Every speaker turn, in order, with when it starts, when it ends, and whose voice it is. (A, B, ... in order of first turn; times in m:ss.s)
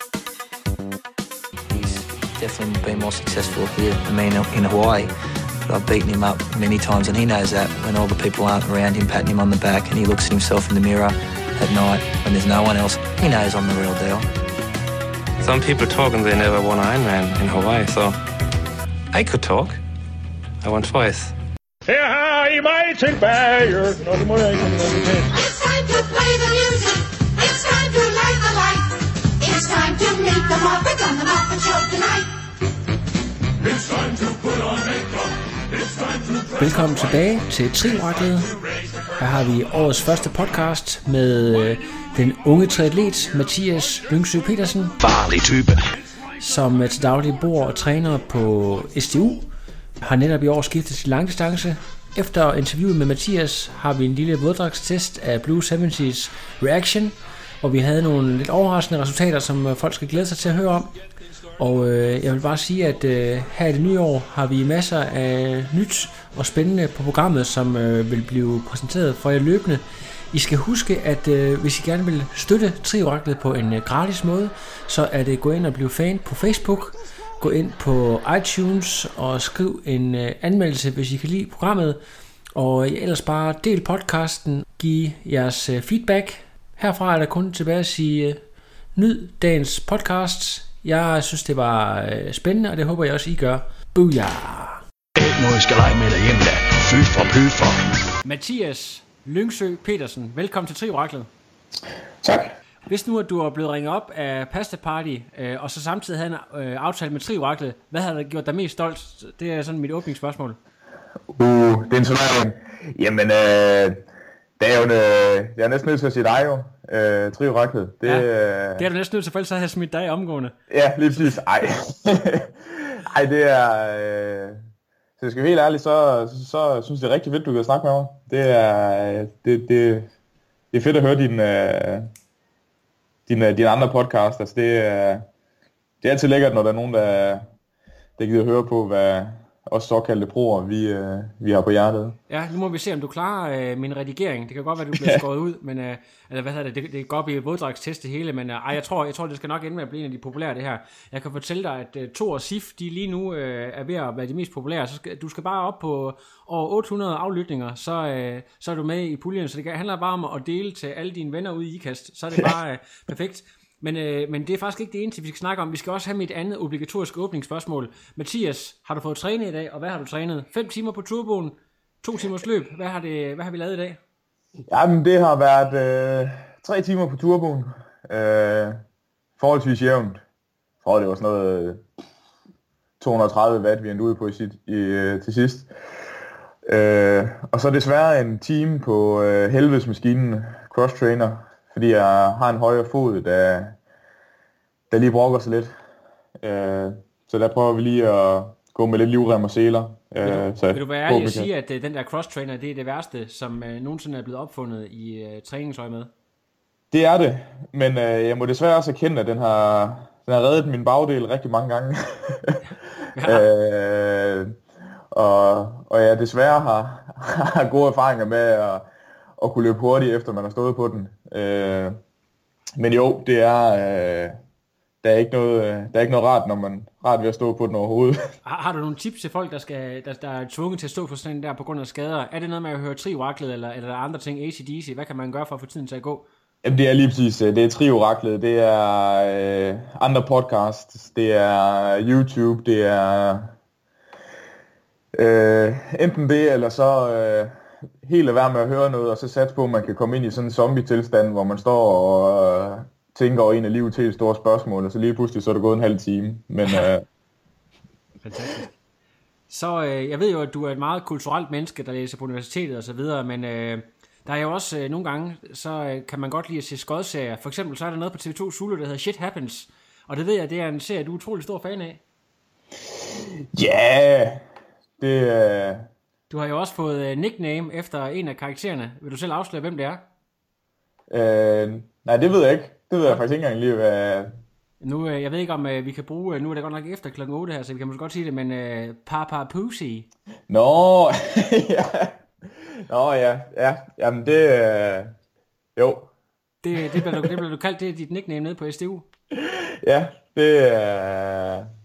0:01.7-0:05.1 A
0:05.6-0:14.3 A
0:15.4-0:18.2 B
0:19.1-0:19.8 B
0:20.6-0:21.3 B
0:21.9-0:25.3 C
0:25.3-0:32.3 D
0:36.5-0:38.5 E
0:39.2-0:45.0 E
0:45.0-0:45.8 F
0:46.4-0:49.4 E
0:50.0-1:00.9 E
1:01.6-1:22.0 E
1:22.5-1:28.4 E
1:28.9-1:34.8 E
1:35.2-1:37.8 F
1:38.2-1:41.3 E
1:42.2-1:42.5 G
1:42.9-1:50.6 E
1:51.3-1:54.0 G
1:54.6-1:58.9 G
1:58.0-2:00.6 E
2:00.7-2:04.6 G
2:05.2-2:10.1 G
2:10.7-2:12.1 G
2:13.3-2:15.3 G
2:16.0-2:17.5 G
2:18.2-2:22.2 G
2:22.3-2:54.0 E
2:24.9-2:25.2 G
2:54.7-2:58.8 G
2:59.4-3:00.2 G
3:00.8-3:01.8 G
3:03.0-3:05.7 G
3:06.7-3:13.8 G
3:14.9-3:15.8 G
3:16.4-3:21.5 G
3:20.2-3:26.1 E
3:26.9-3:32.6 G
3:33.2-3:33.5 E
3:33.2-3:34.6 G
3:35.1-3:38.9 G
3:39.4-3:42.0 G
3:42.8-3:44.4 G
3:45.0-3:48.2 G
3:48.4-3:56.2 E
3:56.6-4:03.5 G
4:05.1-4:17.0 G
4:16.6-4:16.9 E
4:18.2-4:18.7 E
4:19.5-4:32.0 E
4:33.2-4:34.4 G
4:35.0-4:35.9 G
4:36.3-4:40.0 E
4:41.1-4:44.3 G
4:44.8-4:50.1 E
4:50.5-4:55.1 G
4:55.8-4:56.1 G
4:56.6-4:59.1 E
4:56.8-4:57.3 G
4:59.3-5:01.7 G